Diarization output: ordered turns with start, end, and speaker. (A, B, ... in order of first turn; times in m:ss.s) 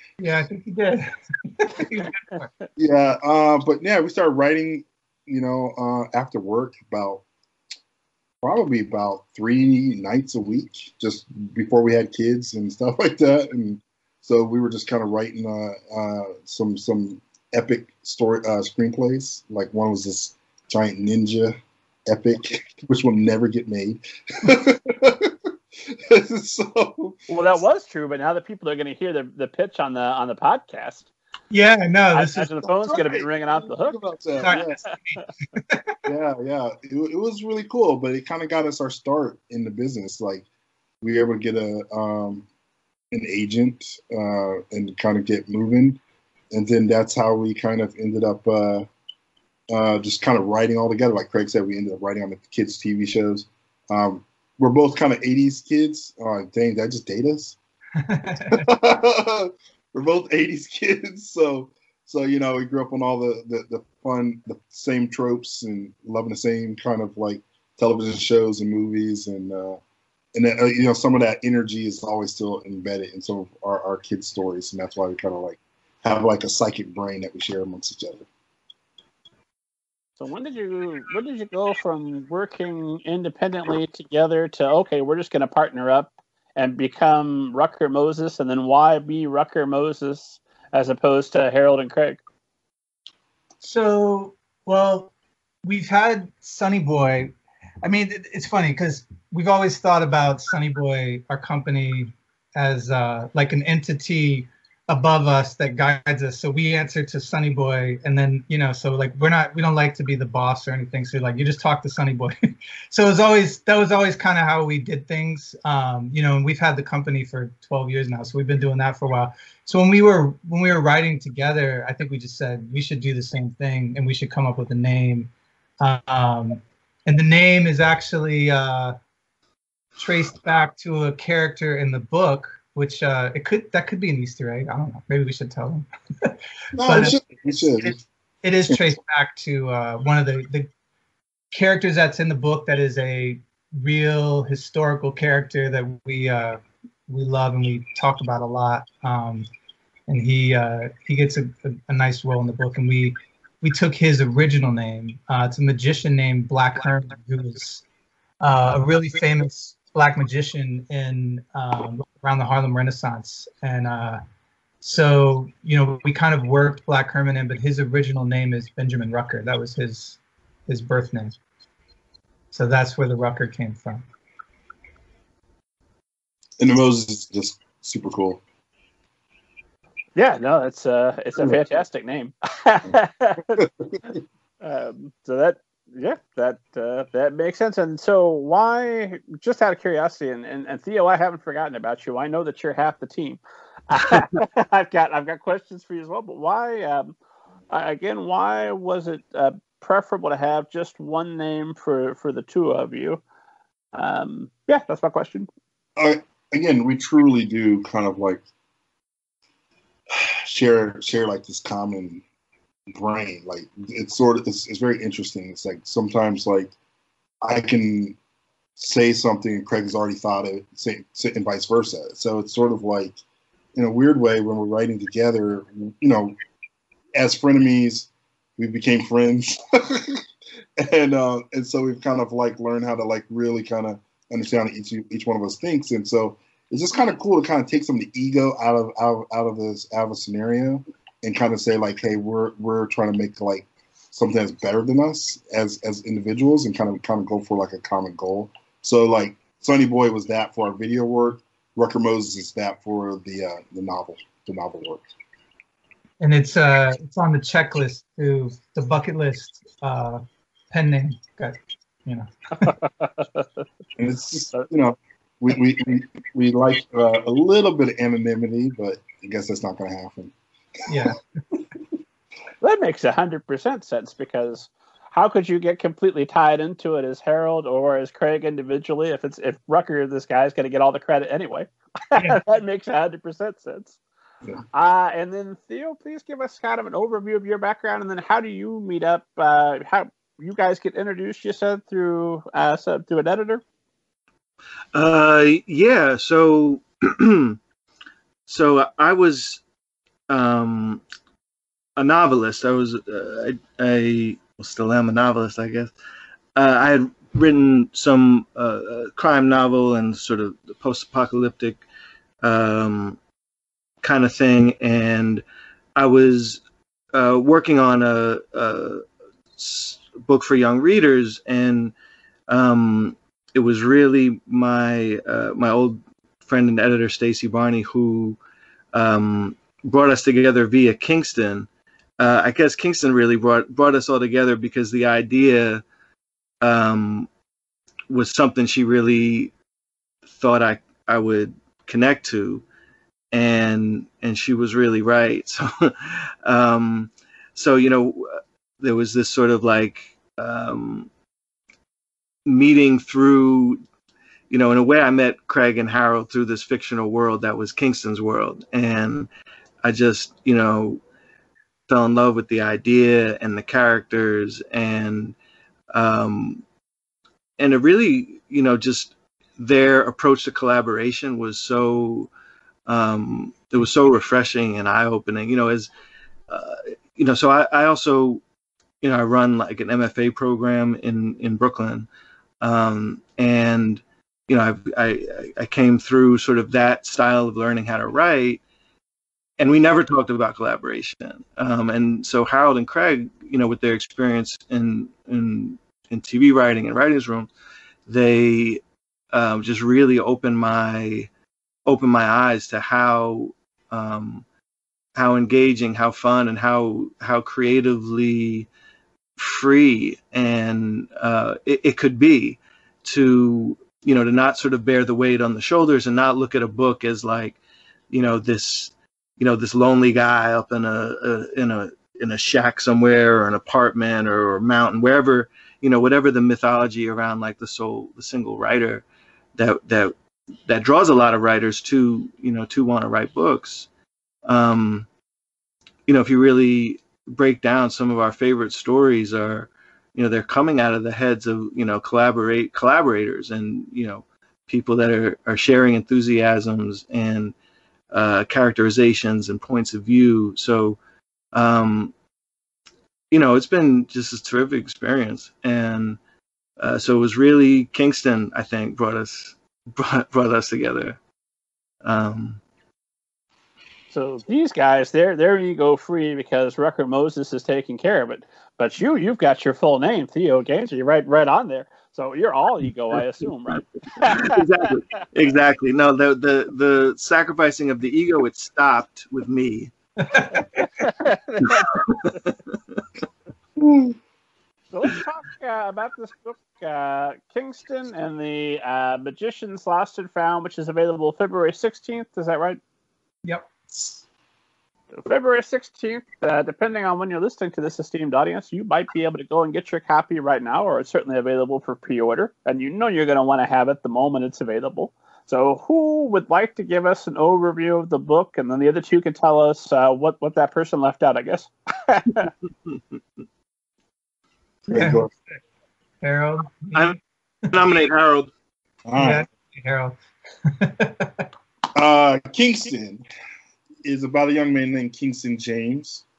0:00.2-0:02.5 A
0:02.8-0:07.2 B
0:08.4-0:21.6 B
0:22.1-0:27.2 B
0:27.3-0:31.1 C
0:31.5-0:32.5 A
0:32.1-0:34.9 C
0:32.9-0:34.8 B
0:34.4-0:36.0 A
0:36.1-0:40.4 B
0:41.0-0:42.5 B
0:43.1-0:46.0 B
0:46.5-0:48.9 B
0:49.7-0:57.6 B
0:58.0-0:58.6 A
0:58.5-1:09.8 B
1:10.4-1:18.3 B
1:20.2-1:32.2 C
1:33.6-1:35.1 A
1:35.6-1:37.3 A
1:37.8-1:52.3 A
1:52.9-2:09.0 A
2:10.0-2:20.7 A
2:16.8-2:18.0 B
2:21.5-2:29.5 A
2:30.1-2:37.8 A
2:38.4-2:44.2 A
2:44.8-2:51.4 A
2:52.5-2:54.0 A
2:56.6-2:58.4 B
3:00.2-3:03.7 C
3:04.6-3:17.1 C
3:17.7-3:23.2 C
3:23.9-3:25.5 C
3:26.0-3:28.4 B
3:30.1-3:32.2 B
3:32.9-3:36.7 B
3:37.4-3:38.2 B
3:38.8-3:43.2 B
3:43.8-3:46.4 B
3:47.2-3:50.2 B
3:50.8-4:15.1 B
4:16.2-4:22.7 A
4:22.7-4:23.4 C
4:24.0-4:30.3 B
4:30.9-4:31.2 A
4:32.6-4:44.0 C
4:44.7-4:53.6 C
4:54.9-4:57.6 D
4:58.5-4:59.6 D
5:00.3-5:01.0 D
5:02.0-5:05.9 D
5:06.6-5:11.8 D
5:12.4-5:13.2 D
5:14.0-5:15.4 D
5:16.0-5:16.6 D
5:17.1-5:19.0 D
5:19.6-5:21.9 D
5:22.5-5:28.4 D
5:28.9-5:31.7 D
5:32.2-5:35.8 D
5:36.6-5:37.3 D
5:38.1-5:39.5 D
5:40.3-5:42.6 D
5:43.3-5:51.1 D
5:52.4-5:53.8 D
5:54.5-5:59.3 D
5:59.8-6:01.0 D
6:01.9-6:05.4 D
6:05.9-6:06.6 D
6:07.6-6:12.3 D
6:12.9-6:15.9 D
6:16.5-6:18.4 D
6:19.0-6:22.1 D
6:22.6-6:28.6 D
6:29.6-6:37.5 D
6:38.1-6:38.8 D
6:39.3-6:41.3 D
6:41.9-6:44.4 D
6:45.2-6:48.7 D
6:49.4-6:57.6 D
6:58.1-7:09.0 D
7:09.6-7:10.1 D
7:10.7-7:13.9 D
7:14.5-7:15.1 D
7:16.1-7:27.5 D
7:28.1-7:31.0 D
7:31.5-7:32.1 D
7:33.3-7:36.2 D
7:36.8-7:41.2 D
7:42.0-7:42.6 D
7:44.1-7:55.1 C
7:54.2-7:59.9 D
8:00.3-8:00.9 A
8:00.5-8:02.4 C
8:01.7-8:02.5 D
8:03.8-8:04.1 B
8:04.9-8:12.8 C
8:13.4-8:14.2 A
8:15.1-8:32.5 C
8:34.9-8:35.3 A
8:34.9-8:35.3 B
8:36.2-8:37.2 A
8:37.7-8:38.5 D
8:39.1-8:39.4 B
8:39.2-8:41.4 A
8:41.9-8:43.2 B
8:44.0-8:46.2 B